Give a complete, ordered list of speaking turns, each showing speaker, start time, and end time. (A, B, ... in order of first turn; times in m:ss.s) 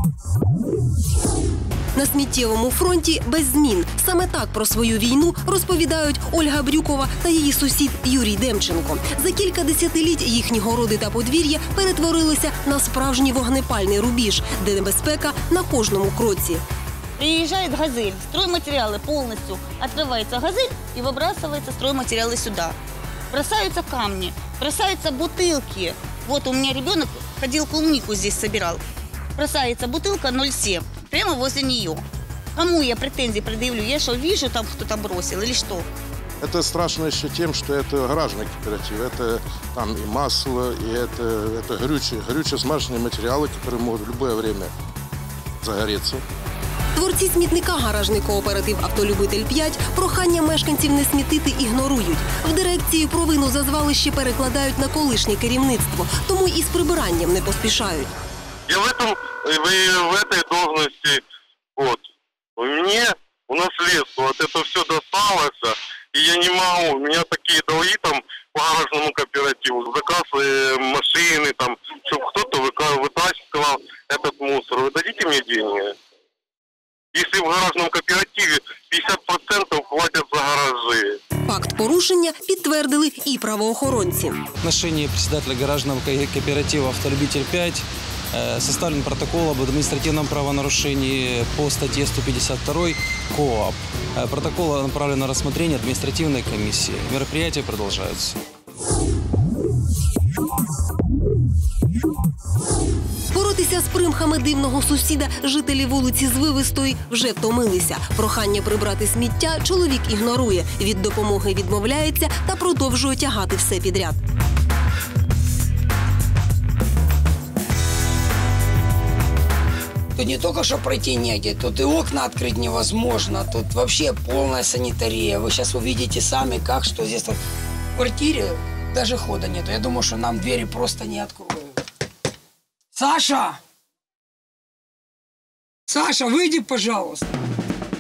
0:02.0-0:16.6 A
0:17.2-0:22.8 B
0:23.3-0:28.8 B
0:29.4-0:32.0 B
0:32.6-0:35.9 B
0:36.4-0:44.7 C
0:45.6-0:46.2 C
0:47.0-0:58.1 A
0:58.7-1:01.2 D
1:01.8-1:02.0 D
1:02.6-1:16.0 D
1:17.1-1:21.2 D
1:21.5-1:24.4 A
1:24.6-1:38.4 E
1:43.3-1:54.2 A
2:00.2-2:07.4 F
2:08.0-2:11.7 F
2:12.9-2:13.6 F
2:15.9-2:17.3 F